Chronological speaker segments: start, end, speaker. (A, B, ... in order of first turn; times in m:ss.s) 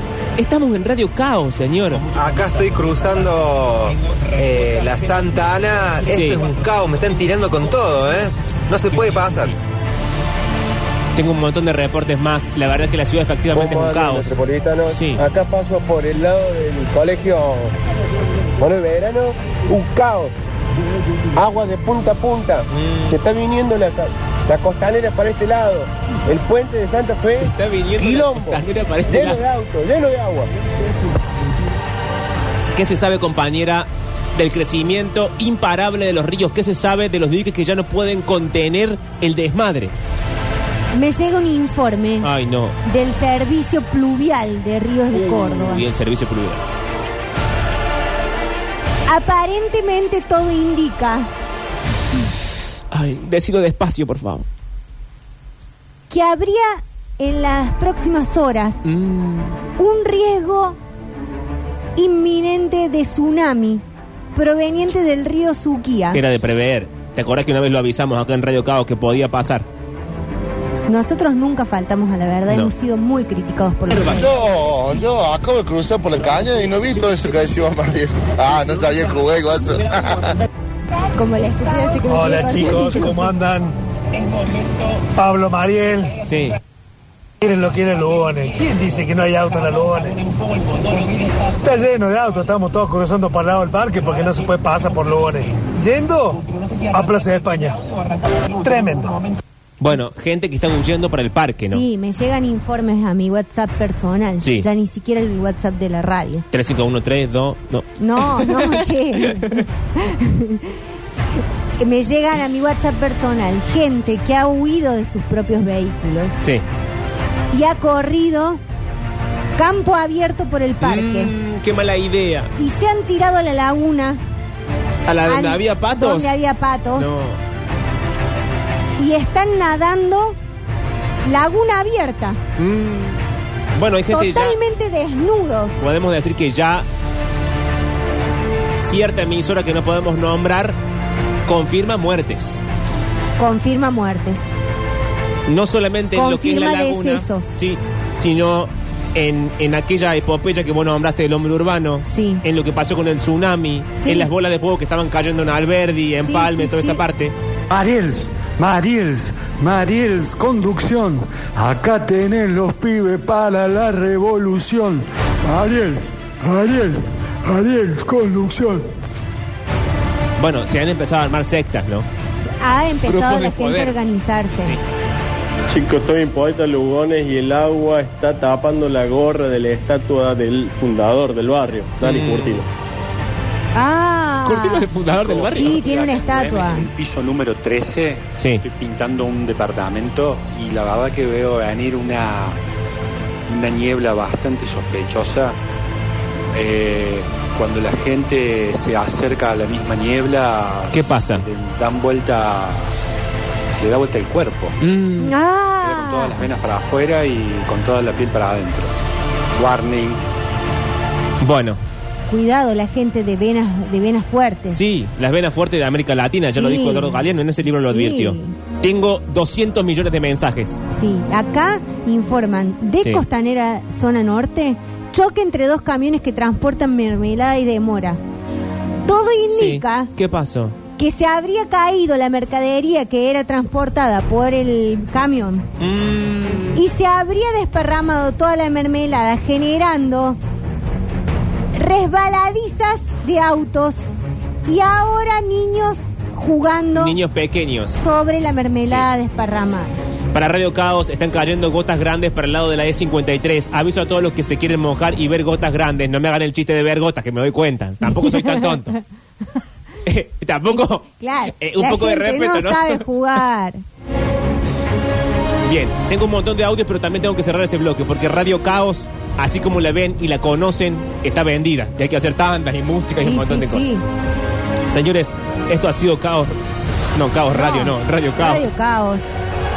0:00.4-0:02.1 A
0:02.2-0:09.5 B
0:06.1-0:06.5 A
0:11.2-0:14.3 A
0:13.5-0:17.7 C
0:14.9-0:15.2 A
0:18.6-0:20.3 C
0:21.3-0:30.5 C
0:22.8-0:23.1 A
0:27.3-0:29.4 A
0:32.7-0:39.9 A
0:40.9-0:42.3 D
0:42.2-0:42.8 A
0:42.8-0:45.8 D
0:45.1-0:46.6 A
0:49.1-0:51.3 D
0:52.9-0:54.5 A
0:56.1-0:58.8 D
0:58.8-0:59.6 A
0:59.8-1:00.8 D
1:02.0-1:03.8 D
1:04.3-1:06.2 D
1:06.1-1:09.6 A
1:10.9-1:14.3 D
1:13.9-1:14.2 A
1:14.2-1:20.3 E
1:21.0-1:23.3 D
1:22.0-1:23.8 F
1:25.1-1:26.2 F
1:26.2-1:26.6 A
1:27.4-1:30.2 F
1:31.6-1:37.8 F
1:38.5-1:39.2 F
1:39.8-1:41.8 A
1:41.7-1:46.4 D
1:44.4-1:44.7 A
1:46.5-1:49.3 A
1:48.0-1:50.8 D
1:51.4-1:56.4 D
1:56.4-1:56.6 A
1:57.5-1:58.6 D
1:59.6-2:01.3 D
2:00.8-2:02.5 A
2:02.6-2:04.2 D
2:05.0-2:06.4 A
2:05.2-2:07.1 D
2:06.9-2:07.4 A
2:09.0-2:10.4 D
2:11.2-2:12.4 D
2:12.6-2:13.2 A
2:13.8-2:14.6 A
2:14.1-2:15.8 D
2:15.8-2:16.8 A
2:18.8-2:20.8 A
2:21.5-2:22.6 A
2:23.4-2:24.5 D
2:25.5-2:37.3 A
2:26.1-2:27.5 D
2:32.1-2:32.4 D
2:34.0-2:34.3 D
2:36.2-2:37.0 D
2:37.7-2:48.9 G
2:50.4-2:52.0 A
2:52.6-2:54.8 D
2:53.0-2:54.0 A
2:54.5-2:54.8 A
2:55.7-3:02.7 H
3:02.0-3:02.6 A
3:03.7-3:04.9 D
3:04.4-3:05.8 A
3:05.0-3:12.6 I
3:05.5-3:06.9 D
3:08.4-3:08.6 A
3:13.5-3:15.6 I
3:16.5-3:22.9 I
3:20.9-3:21.4 A
3:23.7-3:24.8 I
3:24.8-3:25.3 A
3:25.2-3:26.5 D
3:25.8-3:28.9 I
3:29.6-3:30.2 I
3:31.4-3:31.8 A
3:32.3-3:34.8 D
3:34.7-3:40.8 A
3:36.5-3:37.2 D
3:37.9-3:38.5 D
3:40.9-3:48.2 D
3:49.0-3:50.1 D
3:49.4-3:50.8 A
3:51.0-3:55.7 D
3:55.8-3:56.8 A
3:56.7-4:00.4 D
4:01.7-4:04.1 D
4:04.6-4:07.2 D
4:06.9-4:08.0 A
4:08.0-4:09.9 D
4:08.8-4:09.1 A
4:10.3-4:19.0 A
4:18.2-4:18.7 D
4:20.0-4:23.0 A
4:21.2-4:23.8 D
4:25.6-4:34.0 A
4:33.2-4:34.0 D
4:34.9-4:36.5 A
4:37.1-4:38.7 A
4:37.5-4:39.3 D